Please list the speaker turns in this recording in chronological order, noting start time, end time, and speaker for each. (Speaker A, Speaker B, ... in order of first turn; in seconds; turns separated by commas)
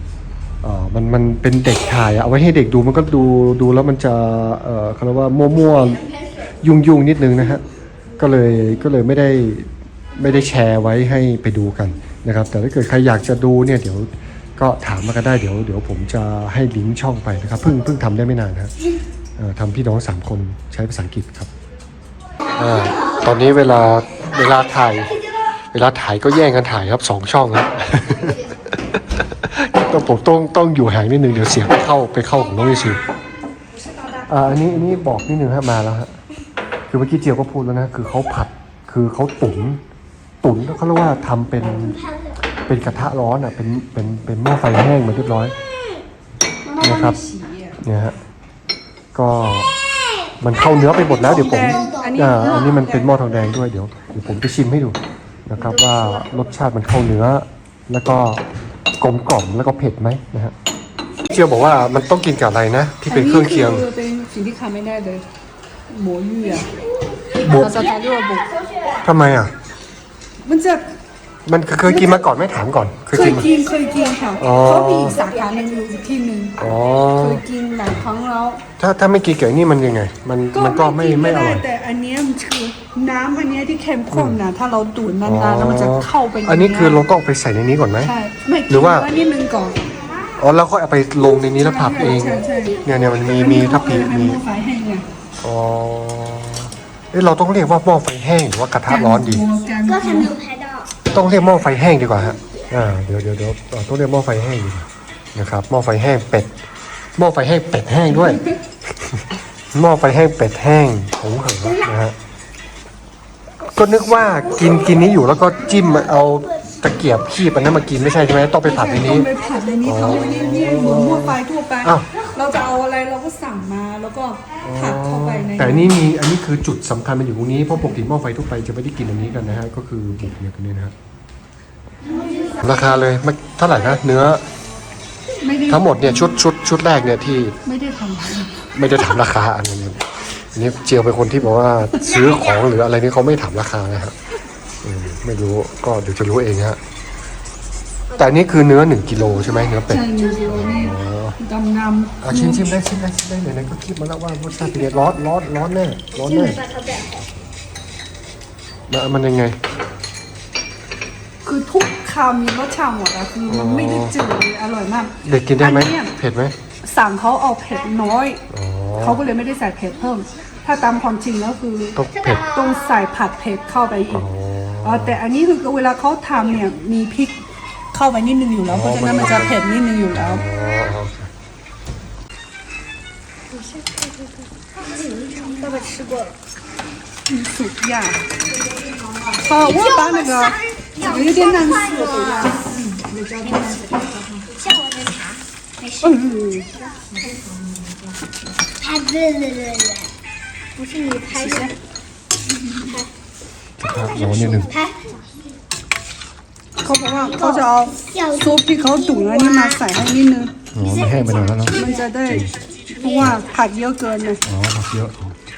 Speaker A: 0.6-6.0, Speaker A: 6.6-7.6, Speaker A: 8.2-18.7, Speaker A: 19.4-21.5, Speaker A: 22.6-25.1, Speaker A: 25.7-33.0, Speaker A: 34.3-36.1, Speaker A: 36.9-39.8, Speaker A: 40.4-42.0, Speaker A: 42.7-45.5, Speaker B: 46.7-47.8, Speaker A: 46.8-47.2, Speaker A: 47.8-48.2, Speaker A: 49.1-49.7, Speaker A: 50.4-58.4, Speaker C: 50.7-52.6, Speaker B: 51.0-53.2, Speaker A: 59.0-60.5, Speaker A: 61.3-63.9, Speaker B: 63.1-65.2, Speaker B: 65.9-66.7, Speaker A: 67.4-67.8, Speaker B: 67.4-68.6, Speaker A: 69.0-69.5, Speaker B: 70.5-70.8, Speaker A: 71.5-73.5, Speaker B: 71.8-72.3, Speaker B: 73.1-78.6, Speaker A: 74.4-75.2, Speaker A: 76.6-77.4, Speaker A: 78.8-81.7, Speaker B: 80.5-87.0, Speaker A: 84.1-84.4, Speaker A: 85.2-88.2, Speaker B: 88.0-89.9, Speaker A: 88.7-89.1, Speaker A: 90.4-94.4, Speaker B: 91.2-95.0, Speaker A: 95.4-99.5, Speaker B: 98.9-100.3, Speaker C: 99.9-101.0, Speaker A: 101.0-106.5, Speaker A: 107.2-108.5, Speaker B: 108.2-108.5, Speaker A: 109.0-112.2, Speaker A: 113.6-122.2, Speaker B: 118.6-126.0, Speaker C: 119.4-120.0, Speaker A: 124.6-130.9, Speaker A: 132.6-134.4, Speaker B: 135.4-136.4, Speaker A: 135.7-137.6, Speaker B: 137.6-138.7, Speaker A: 138.7-144.1, Speaker B: 141.9-142.3, Speaker A: 144.8-146.8, Speaker A: 148.1-151.4, Speaker B: 149.9-152.7, Speaker A: 152.2-156.7, Speaker C: 156.7-157.1, Speaker A: 158.9-159.6, Speaker B: 161.4-166.1, Speaker A: 163.5-164.2, Speaker A: 165.1-166.6, Speaker B: 166.8-168.4, Speaker A: 168.5-169.2, Speaker B: 169.0-174.2, Speaker A: 171.9-172.5, Speaker A: 174.1-175.2, Speaker B: 174.8-180.4, Speaker A: 178.7-179.6, Speaker A: 180.1-181.3, Speaker C: 183.8-184.1, Speaker C: 184.9-186.3, Speaker B: 185.4-186.2, Speaker B: 187.3-188.2, Speaker B: 189.4-194.4, Speaker C: 189.6-192.6, Speaker C: 194.5-196.4, Speaker B: 196.0-196.7, Speaker C: 198.8-200.1, Speaker C: 200.8-201.7, Speaker B: 201.3-201.7, Speaker A: 203.8-204.7, Speaker C: 204.0-205.2, Speaker B: 206.8-210.6, Speaker C: 207.3-209.8, Speaker A: 210.7-212.5, Speaker C: 210.8-211.9, Speaker B: 211.7-214.4, Speaker A: 214.4-215.3